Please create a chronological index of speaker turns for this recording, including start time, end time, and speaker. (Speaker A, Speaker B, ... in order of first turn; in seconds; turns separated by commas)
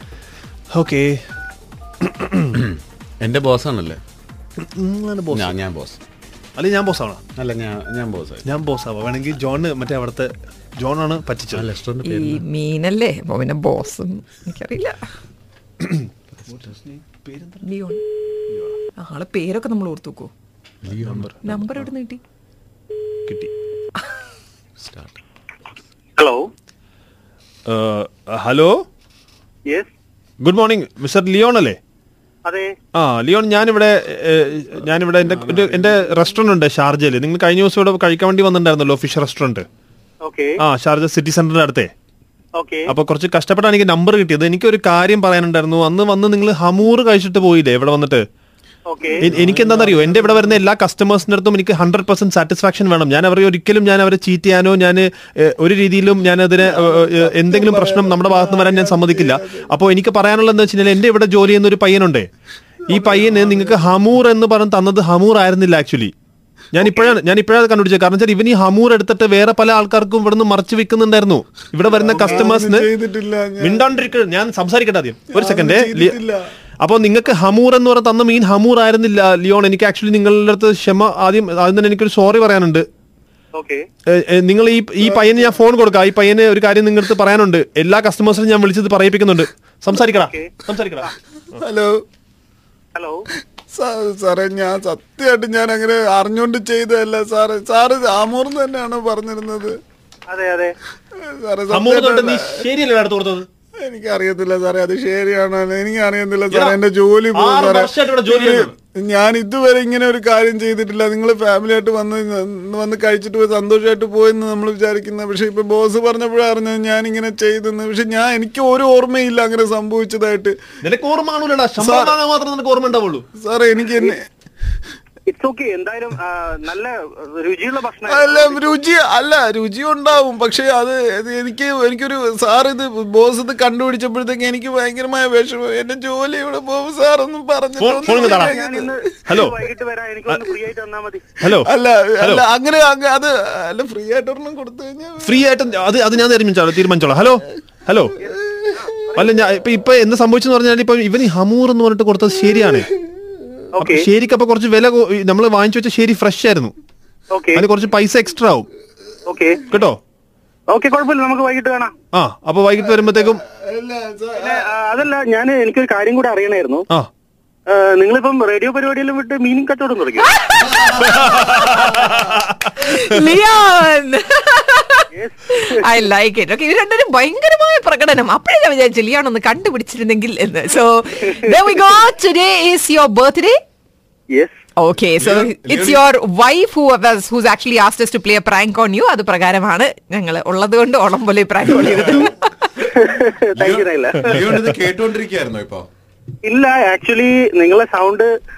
Speaker A: 0.7-1.2, Speaker A: 2.0-2.4, Speaker B: 2.5-4.0, Speaker A: 4.8-5.5, Speaker B: 5.3-6.0, Speaker A: 6.6-7.2, Speaker B: 7.3-8.5, Speaker A: 8.4-11.7, Speaker B: 11.5-12.4, Speaker C: 12.0-15.0, Speaker A: 15.8-17.6, Speaker C: 17.6-18.0, Speaker C: 19.0-20.3, Speaker B: 20.9-21.3, Speaker A: 20.9-21.9, Speaker C: 21.4-22.2, Speaker B: 24.8-25.1, Speaker D: 26.2-26.5, Speaker A: 27.7-28.8, Speaker A: 30.4-31.8, Speaker D: 32.5-32.7, Speaker A: 33.0-39.6, Speaker D: 40.2-40.5, Speaker A: 40.6-41.9, Speaker D: 42.6-42.9, Speaker A: 42.9-48.2, Speaker D: 48.9-49.3, Speaker A: 49.2-62.3, Speaker B: 49.4-49.8, Speaker E: 49.9-50.3, Speaker E: 56.6-59.7, Speaker E: 62.9-63.8, Speaker A: 62.9-66.1, Speaker A: 66.7-72.9, Speaker E: 71.9-73.9, Speaker D: 72.1-72.5, Speaker A: 73.6-76.2, Speaker E: 75.3-76.4, Speaker A: 76.8-82.8, Speaker D: 83.5-83.8, Speaker A: 84.1-91.1, Speaker E: 85.0-85.6, Speaker D: 90.0-90.5, Speaker E: 91.5-92.0, Speaker D: 92.9-93.2, Speaker E: 93.7-99.8, Speaker D: 100.3-100.7, Speaker E: 101.2-102.6, Speaker A: 101.7-103.5, Speaker E: 103.8-120.5, Speaker A: 106.5-106.8, Speaker A: 107.3-108.7, Speaker A: 120.8-123.2, Speaker E: 121.8-122.2, Speaker E: 123.4-124.2, Speaker D: 125.3-128.8, Speaker E: 128.1-139.0, Speaker A: 137.8-138.6, Speaker D: 138.0-141.2, Speaker A: 139.3-139.6, Speaker A: 141.4-142.4, Speaker E: 141.7-145.4, Speaker A: 145.2-148.1, Speaker D: 148.2-149.3, Speaker A: 149.2-152.9, Speaker D: 153.8-154.1, Speaker A: 153.8-156.7, Speaker D: 157.3-157.6, Speaker A: 157.6-158.7, Speaker D: 159.3-159.7, Speaker A: 159.7-160.0, Speaker D: 160.7-161.9, Speaker A: 162.1-163.4, Speaker E: 163.1-164.7, Speaker D: 164.4-166.8, Speaker D: 167.7-170.3, Speaker C: 170.2-183.6, Speaker A: 171.0-172.3, Speaker D: 175.1-175.7, Speaker C: 184.8-192.9, Speaker B: 185.2-186.0, Speaker D: 193.0-194.7, Speaker B: 193.6-195.9, Speaker A: 194.3-194.8, Speaker D: 196.4-198.3